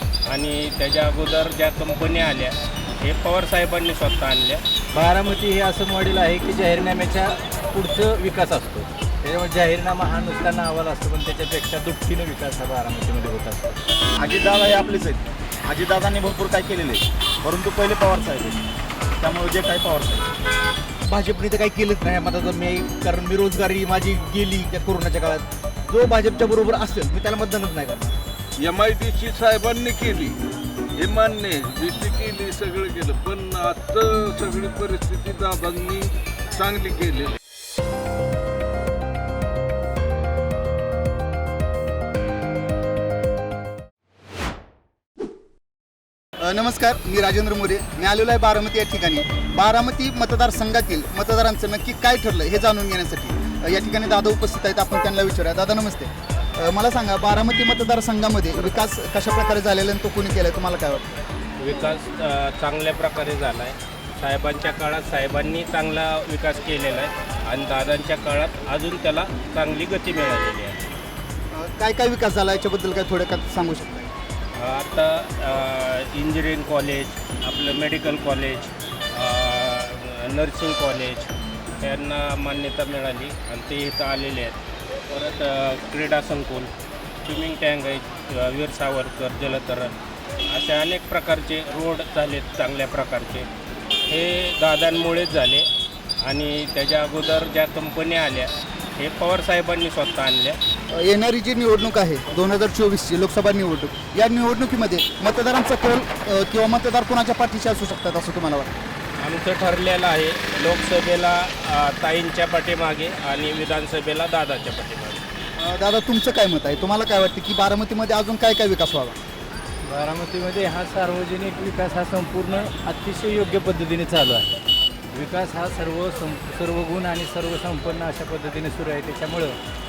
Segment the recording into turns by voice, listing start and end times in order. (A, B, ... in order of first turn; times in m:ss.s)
0:00.3-0:04.6 A
0:04.9-0:13.8 B
0:14.2-0:18.6 C
0:19.2-0:20.3 C
0:21.1-0:28.2 D
0:28.6-0:30.4 E
0:31.0-0:37.3 E
0:46.4-1:01.1 F
1:01.6-1:10.9 A
1:11.5-1:14.1 F
1:14.6-1:21.3 A
1:21.8-1:24.6 A
1:25.1-1:26.7 A
1:27.2-1:29.9 A
1:30.5-1:33.5 A
1:34.1-1:35.7 A
1:36.2-1:40.6 A
1:40.9-1:48.7 F
1:49.2-1:55.2 A
1:55.6-1:59.2 F
1:59.9-2:04.6 B
2:05.1-2:09.6 B